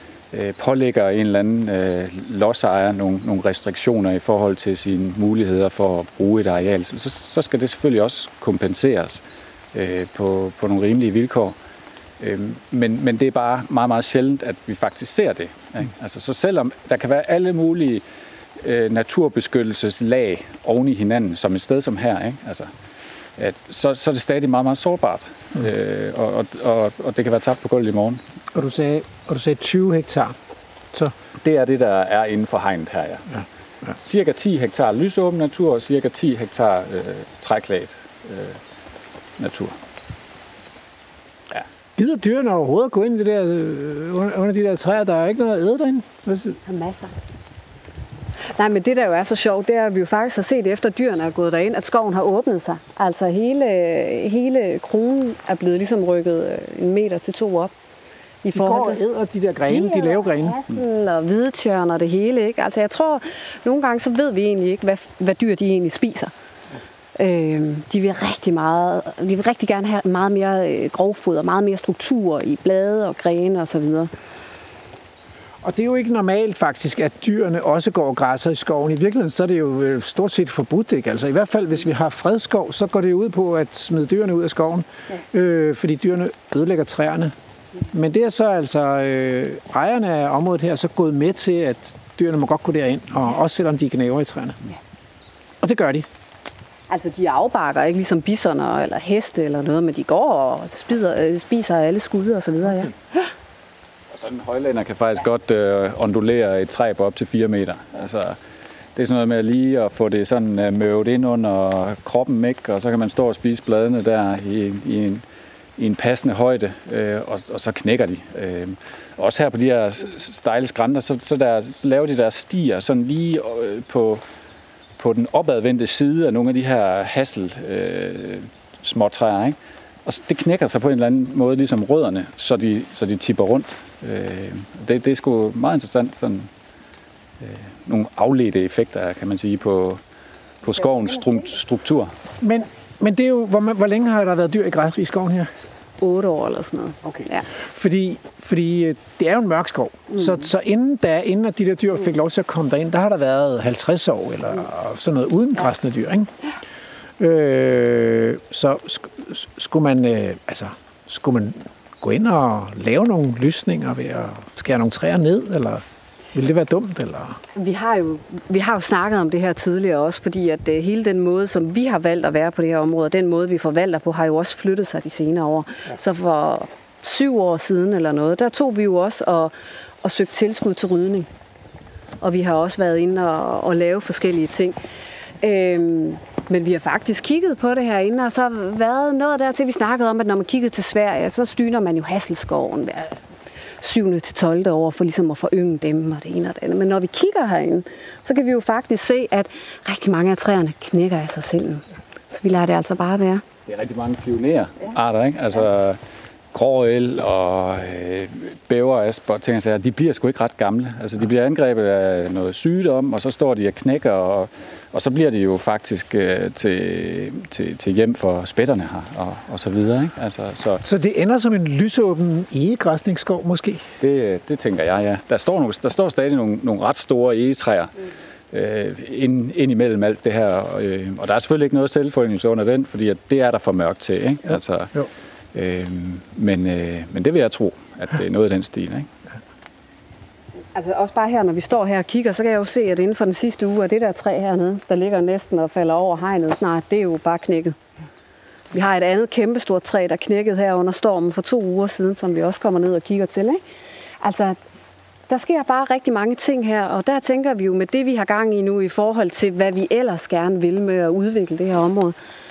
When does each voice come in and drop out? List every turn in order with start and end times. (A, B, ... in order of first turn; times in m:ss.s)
0:00.3-0:11.6 A
0:12.2-0:18.0 A
0:18.6-0:22.7 A
0:23.4-0:28.2 A
0:28.5-0:30.4 B
0:31.4-0:33.3 A
0:33.9-0:38.6 A
0:39.4-0:39.8 A
0:42.0-0:46.6 B
0:46.6-0:47.1 C
0:48.4-0:57.7 C
0:58.4-0:59.0 C
0:58.5-1:00.6 B
0:59.7-1:06.3 C
1:07.2-1:14.1 C
1:15.6-1:27.3 B
1:27.9-1:34.6 B
1:35.6-1:36.1 B
1:36.9-1:43.3 C
1:44.1-1:48.4 A
1:49.0-1:55.2 A
1:55.8-2:04.2 A
2:05.0-2:16.5 A
2:17.4-2:20.0 A
2:20.6-2:22.1 A
2:20.8-2:21.5 C
2:22.4-2:25.5 B
2:26.0-2:27.4 C
2:27.0-2:36.3 B
2:37.2-2:47.4 B
2:47.5-3:01.3 C
3:02.2-3:04.8 C
3:05.4-3:13.2 C
3:13.8-3:23.4 C
3:23.6-3:26.0 A
3:26.5-3:40.8 A
3:40.8-3:43.8 B
3:44.0-3:47.9 A
3:48.5-3:59.1 A
4:00.7-4:07.8 C
4:08.7-4:13.6 C
4:14.2-4:14.6 C
4:15.3-4:22.2 C